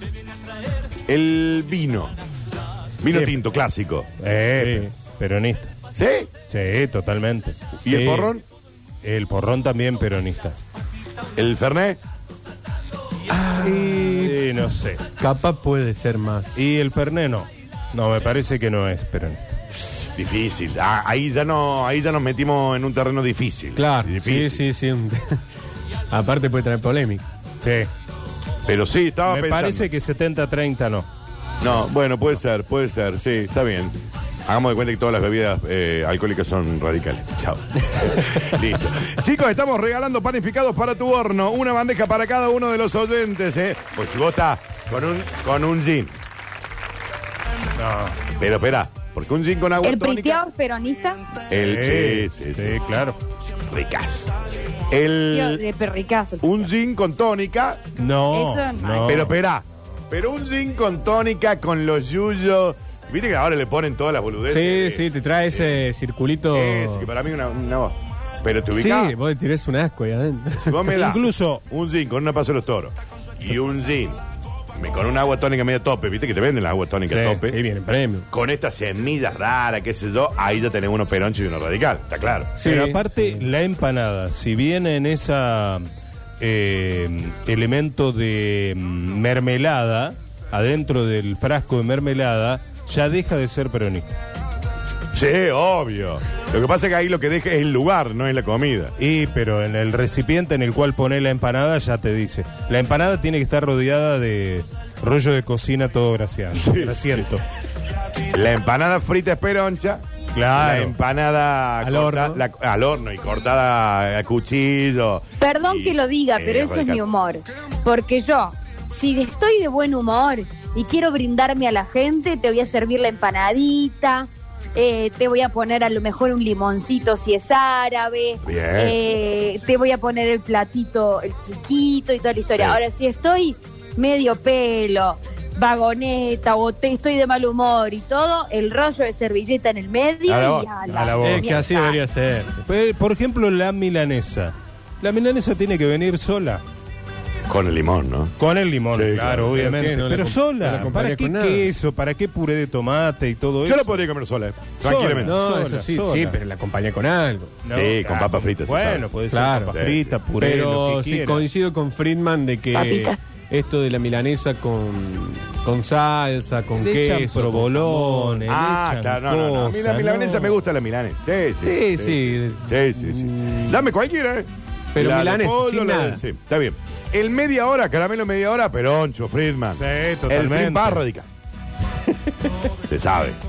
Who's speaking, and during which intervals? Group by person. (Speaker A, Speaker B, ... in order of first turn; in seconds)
Speaker A: 1.1-2.1, 3.0-4.1, 5.9-6.3, 7.8-8.4, 11.3-12.0, 19.7-24.6, 28.6-29.9, 31.6-33.9, 34.5-46.1, 48.3-50.4, 51.5-52.8, 53.7-55.6, 56.4-57.8, 59.1-65.8, 66.5-69.2, 70.5-74.2, 74.7-77.6, 78.3-82.6, 95.1-99.0, 106.5-107.3, 108.2-110.0, 110.5-117.0, 128.4-129.0, 132.5-132.8, 140.2-140.7, 147.5-148.3, 148.9-149.6, 153.6-155.4, 157.7-159.1, 159.7-160.2, 168.5-181.3, 182.8-183.4
Speaker B: 4.2-5.7, 6.5-7.7, 9.0-10.6, 13.3-15.0, 16.6-19.6, 27.6-27.9, 29.3-31.1, 47.8-48.2, 51.5-53.2, 58.0-59.3, 70.9-71.6, 77.1-77.4, 82.6-85.9, 86.4-94.1, 99.0-107.4, 110.3-110.9, 140.9-141.7, 142.7-146.6, 148.4-154.0, 154.8-156.4, 157.6-161.4, 166.8-170.6, 179.8-181.0
Speaker C: 4.5-4.9, 7.8-8.3, 15.2-16.6, 23.8-25.4, 26.1-27.2, 64.5-67.1, 68.8-70.9, 77.4-78.3, 82.6-83.5, 111.8-112.4, 141.2-142.7, 149.5-151.7, 155.2-157.5, 159.3-159.8, 160.4-168.5, 171.6-173.8, 174.9-176.2
Speaker D: 49.8-51.2, 55.3-56.7, 58.3-59.3, 115.4-142.0